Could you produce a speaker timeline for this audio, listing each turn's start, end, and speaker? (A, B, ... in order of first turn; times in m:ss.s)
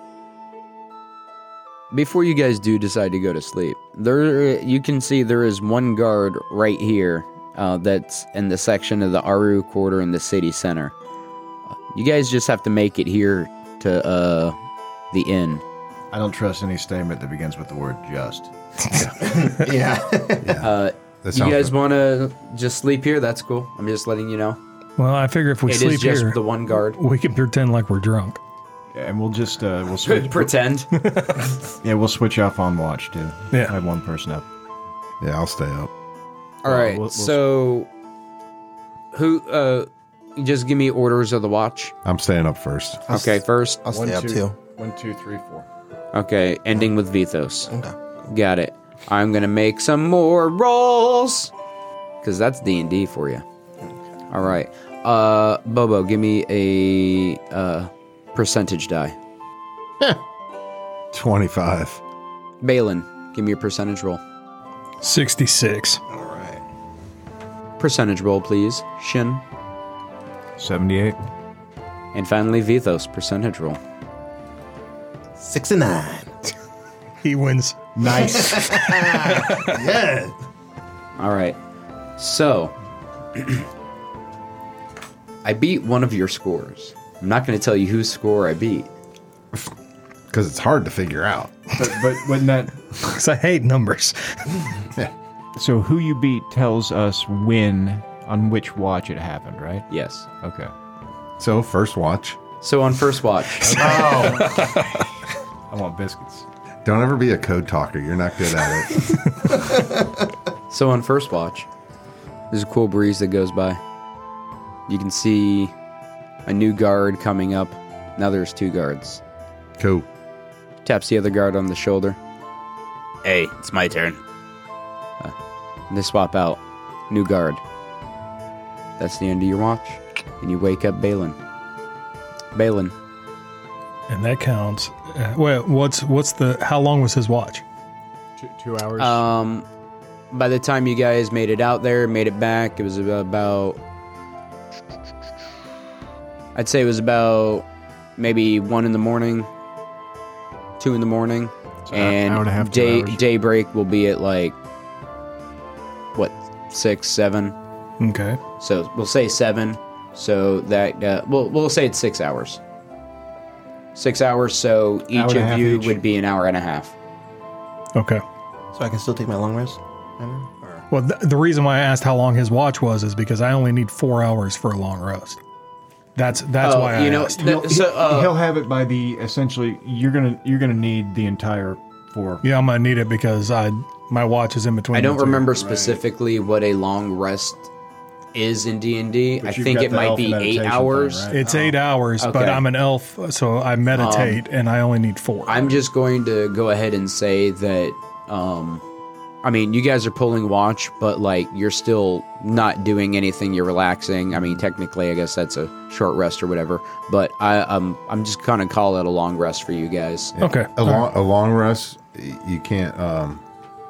0:01.9-0:10.9 A
0:11.9-0:14.6 A
0:15.1-0:15.6 A
0:16.1-0:18.5 B
0:19.2-0:20.5 C
0:20.4-0:21.7 D
0:20.6-0:24.6 A
0:25.0-0:28.4 E
0:25.7-0:27.0 A
0:28.9-0:30.6 B
0:30.0-0:30.9 A
0:30.9-0:31.5 E
0:31.8-0:34.4 B
0:35.2-0:35.9 D
0:36.6-0:37.9 A
0:36.6-0:37.4 B
0:39.1-0:41.9 A
0:42.0-0:43.0 D
0:43.1-0:43.8 A
0:43.1-0:44.6 C
0:43.8-0:45.7 B
0:46.1-0:47.7 A
0:47.7-0:47.9 C
0:48.3-0:51.5 A
0:52.2-0:53.4 A
0:54.3-0:59.1 A
1:01.1-1:02.0 D
1:02.6-1:04.2 A
1:05.0-1:06.0 E
1:06.1-1:06.6 C
1:07.8-1:09.4 A
1:10.6-1:11.2 B
1:12.1-1:13.8 A
1:15.4-1:16.3 C
1:17.2-1:17.8 E
1:17.9-1:18.8 B
1:18.1-1:20.3 C
1:18.6-1:19.7 E
1:21.2-1:21.6 A
1:22.2-1:22.7 A
1:23.4-1:23.6 A
1:25.4-1:28.9 A
1:30.3-1:31.5 D
1:31.8-1:32.7 B
1:33.0-1:34.7 E
1:35.5-1:39.8 B
1:39.9-1:40.2 A
1:40.4-1:40.7 B
1:41.4-1:42.4 D
1:42.6-1:44.0 A
1:43.6-1:44.6 B
1:43.8-1:44.6 C
1:45.7-1:46.4 B
1:46.8-1:49.1 D
1:50.7-1:51.7 A
1:52.5-1:53.8 A
1:54.9-1:55.7 A
1:56.4-1:59.2 A
1:59.8-2:00.0 D
2:00.8-2:02.2 A
2:03.2-2:04.2 A
2:05.9-2:07.6 A
2:09.0-2:11.4 A
2:12.5-2:12.9 A
2:14.1-2:17.6 E
2:18.4-2:19.2 B
2:19.0-2:19.7 A
2:20.3-2:23.8 A
2:26.5-2:27.6 A
2:28.2-2:29.5 A
2:30.8-2:34.6 A
2:31.8-2:33.2 B
2:36.1-2:37.5 A
2:38.0-2:38.4 E
2:38.6-2:42.6 A
2:43.9-2:46.9 A
2:45.1-2:46.0 B
2:47.9-2:48.2 E
2:48.7-2:50.8 C
2:50.9-2:55.4 E
2:56.2-2:57.6 E
2:56.6-2:58.4 A
2:57.4-3:02.4 B
3:02.4-3:05.5 E
3:04.9-3:07.7 A
3:05.5-3:06.0 B
3:08.3-3:11.3 A
3:09.4-3:11.4 B
3:11.3-3:15.8 E
3:11.4-3:11.7 C
3:12.2-3:12.6 A
3:13.9-3:14.4 A
3:15.4-3:18.8 A
3:19.4-3:30.3 A
3:30.4-3:33.4 D
3:30.4-3:31.1 E